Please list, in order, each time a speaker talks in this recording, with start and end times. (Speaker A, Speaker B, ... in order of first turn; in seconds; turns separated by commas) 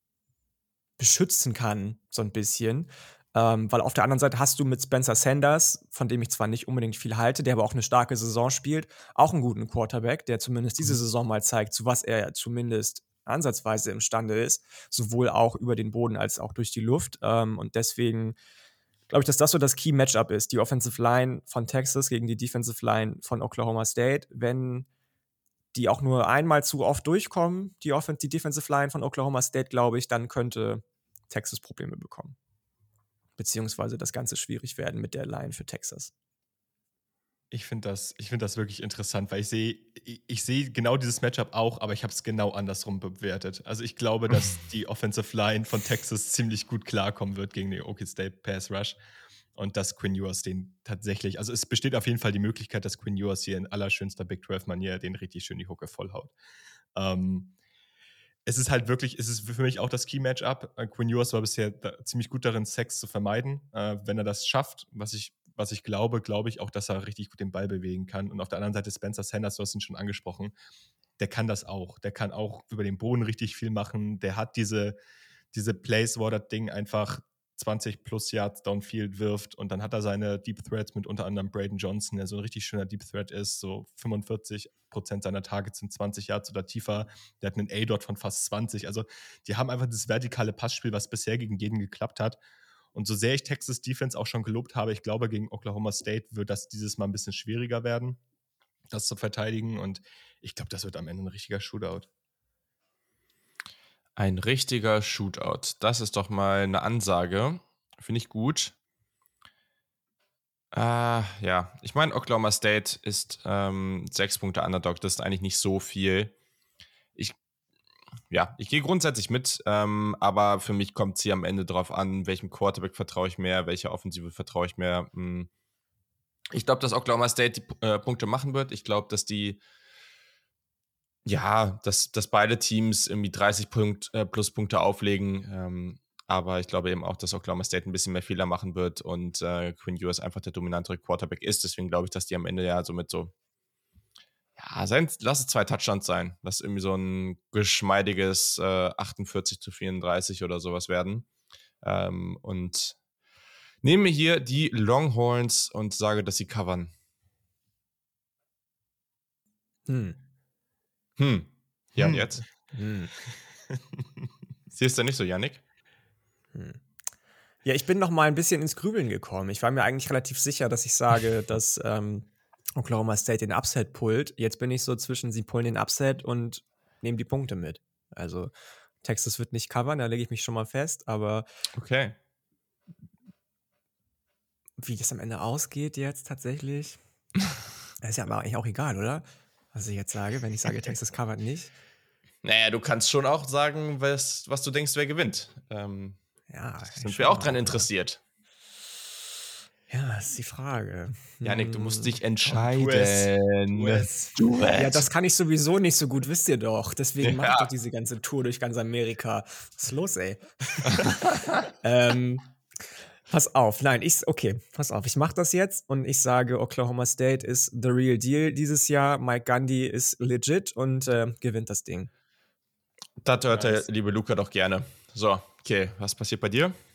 Speaker A: 1.0-18.4, Speaker A: 19.1-24.9, Speaker A: 25.7-32.4, Speaker A: 33.4-36.1, Speaker B: 37.5-49.0, Speaker B: 49.6-56.3, Speaker B: 57.0-57.5, Speaker B: 58.5-70.5, Speaker B: 71.2-75.0, Speaker B: 75.5-92.4, Speaker B: 92.9-98.2, Speaker B: 98.9-102.1, Speaker C: 104.2-108.8, Speaker C: 110.7-116.3, Speaker C: 118.3-125.5, Speaker C: 126.5-129.6, Speaker C: 131.2-143.3, Speaker C: 144.6-151.3, Speaker C: 151.8-153.0, Speaker C: 153.8-156.9, Speaker A: 159.9-160.2, Speaker C: 161.2-162.5, Speaker B: 162.0-162.3, Speaker A: 162.7-163.1, Speaker C: 164.7-165.6, Speaker A: 166.5-166.8, Speaker A: 167.7-178.5, Speaker A: 179.0-181.5, Speaker C: 181.8-182.2, Speaker A: 184.8-187.0, Speaker A: 188.0-191.7, Speaker C: 192.4-196.2, Speaker A: 196.5-197.9, Speaker C: 196.9-198.2, Speaker A: 199.9-202.2, Speaker C: 201.4-205.1, Speaker B: 202.5-204.3, Speaker A: 204.8-211.1, Speaker C: 207.2-207.7, Speaker A: 211.8-212.5, Speaker A: 213.3-222.1, Speaker C: 223.2-226.8, Speaker B: 223.5-223.8